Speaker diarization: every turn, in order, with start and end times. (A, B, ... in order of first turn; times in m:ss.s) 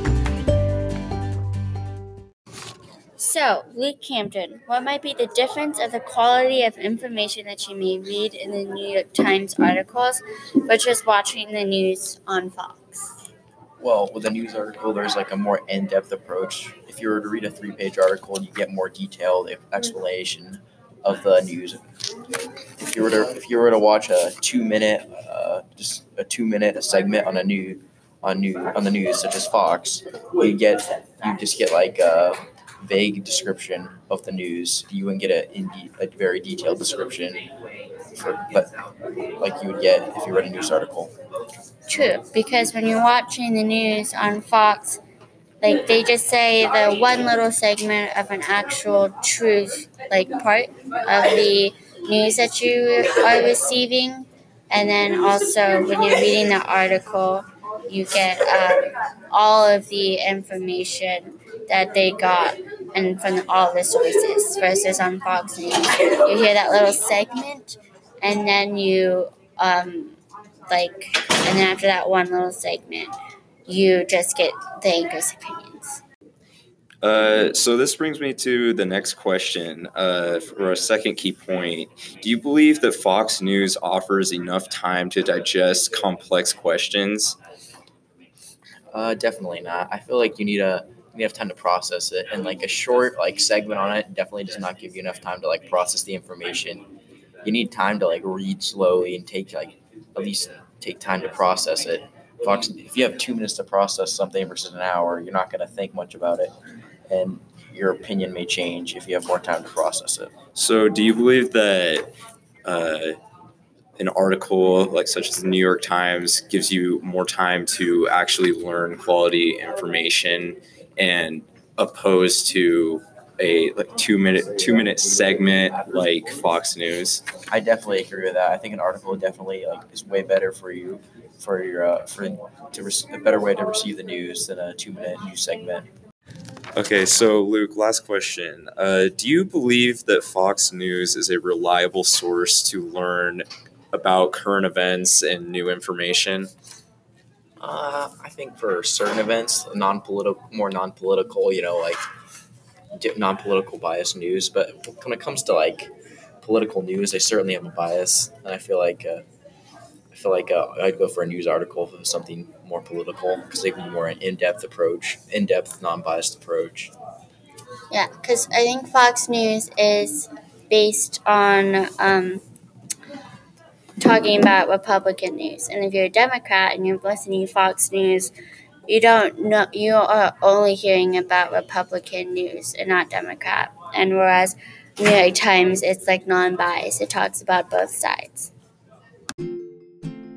0:03.2-0:13.1 A
0:13.8-0:21.8 B
0:22.8-0:37.5 B
0:38.1-0:38.7 B
0:39.4-0:41.1 B
0:41.8-0:45.0 A
0:45.6-1:10.2 A
1:10.7-1:13.1 A
1:13.7-1:16.0 A
1:17.0-1:27.4 C
1:28.9-1:36.8 B
1:37.4-1:46.5 B
1:47.1-1:50.3 B
1:50.5-1:52.1 C
1:52.6-1:53.2 C
1:54.0-2:07.2 C
2:07.5-2:15.9 B
2:16.8-2:26.5 C
2:27.6-2:32.0 B
2:32.9-2:39.2 B
2:40.1-2:46.9 B
2:47.9-2:52.4 A
2:54.0-2:58.3 A
2:58.8-3:08.5 A